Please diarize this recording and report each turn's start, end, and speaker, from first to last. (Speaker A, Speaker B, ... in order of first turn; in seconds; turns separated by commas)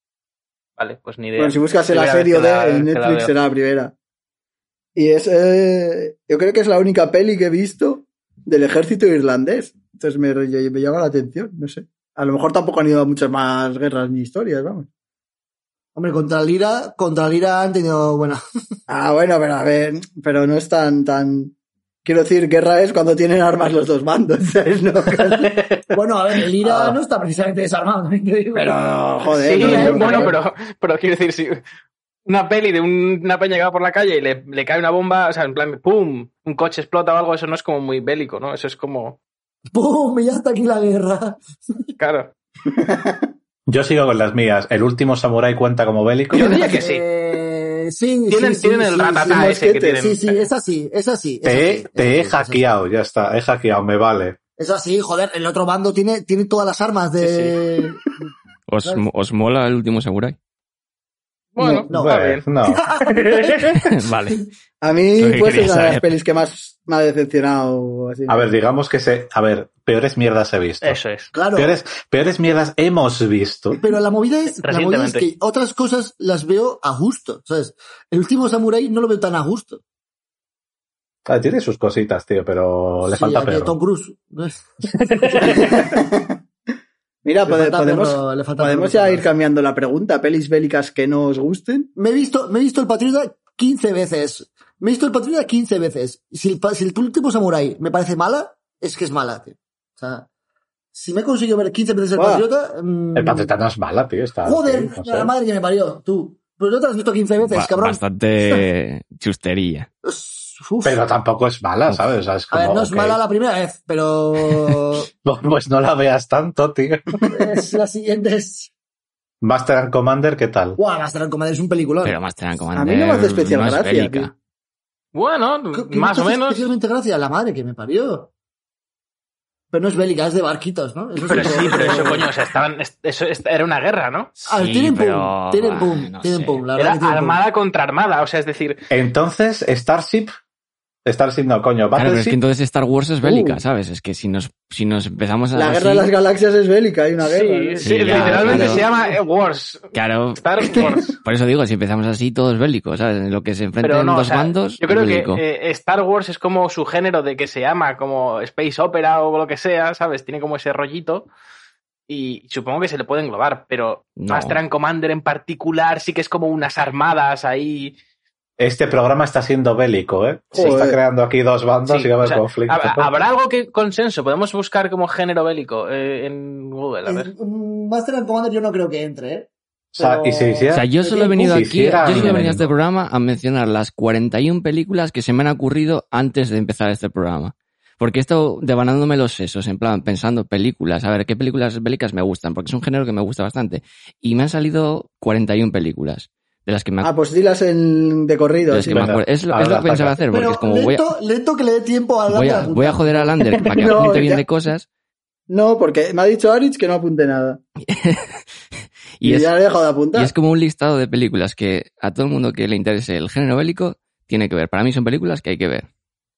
Speaker A: 0.8-3.3, Speaker B: 1.4-3.9, Speaker B: 5.0-14.9, Speaker C: 15.9-18.4, Speaker B: 18.9-21.5, Speaker B: 22.0-25.6, Speaker C: 25.9-28.8, Speaker B: 26.6-27.0, Speaker B: 28.5-30.4, Speaker A: 29.3-31.6, Speaker C: 29.5-30.4, Speaker A: 32.2-39.2, Speaker C: 39.7-41.9, Speaker A: 42.0-42.3, Speaker B: 42.7-43.3, Speaker D: 43.7-46.6, Speaker A: 46.3-47.0, Speaker C: 46.3-52.6, Speaker A: 48.3-50.2, Speaker B: 49.3-50.1, Speaker D: 51.4-54.4, Speaker C: 54.6-58.1, Speaker B: 57.2-57.9, Speaker E: 58.7-60.4, Speaker A: 61.5-62.4, Speaker B: 61.6-61.9, Speaker C: 61.9-62.3, Speaker D: 61.9-63.0, Speaker C: 62.8-63.5, Speaker E: 63.8-64.4, Speaker B: 64.8-68.5, Speaker E: 65.2-66.1, Speaker D: 68.3-71.0, Speaker A: 70.8-71.3, Speaker C: 71.3-71.7, Speaker D: 71.5-73.8, Speaker C: 73.8-79.8, Speaker A: 74.6-75.2, Speaker D: 81.2-83.7, Speaker C: 83.0-85.8, Speaker D: 84.9-85.5, Speaker B: 85.3-86.4, Speaker B: 87.2-91.9, Speaker C: 87.5-89.2, Speaker C: 92.0-100.3, Speaker C: 100.9-103.5, Speaker B: 102.2-102.5, Speaker D: 103.1-105.3, Speaker C: 104.4-108.0, Speaker E: 107.4-109.9, Speaker C: 110.0-111.0, Speaker D: 110.8-113.2, Speaker C: 112.5-115.1, Speaker D: 115.2-117.4, Speaker C: 117.3-118.7, Speaker D: 119.4-120.8, Speaker C: 120.8-122.2, Speaker E: 122.0-124.3, Speaker B: 122.8-124.3, Speaker A: 125.1-126.7, Speaker C: 125.7-128.3, Speaker C: 129.7-132.3, Speaker A: 131.3-134.3, Speaker B: 131.3-132.3, Speaker E: 134.3-136.6, Speaker C: 134.5-137.4, Speaker A: 136.7-138.8, Speaker D: 138.9-140.3, Speaker D: 141.0-142.4, Speaker E: 141.9-146.1, Speaker B: 143.2-143.6, Speaker B: 145.6-148.9, Speaker A: 147.2-151.2, Speaker E: 147.8-148.9, Speaker E: 149.9-155.4, Speaker A: 153.8-161.3, Speaker A: 162.1-167.9, Speaker E: 164.2-164.6, Speaker D: 168.6-173.2, Speaker B: 170.5-171.0, Speaker A: 171.9-177.3, Speaker C: 177.1-181.6, Speaker D: 179.9-180.9, Speaker E: 180.7-197.1, Speaker D: 181.4-182.7, Speaker A: 182.1-182.4, Speaker B: 197.0-199.1, Speaker E: 198.7-201.1, Speaker D: 198.9-200.2, Speaker C: 200.3-203.4, Speaker E: 202.3-204.9, Speaker B: 203.5-204.4, Speaker B: 205.5-207.6, Speaker E: 207.8-208.4, Speaker E: 209.2-209.5, Speaker B: 209.2-210.3, Speaker E: 210.1-215.9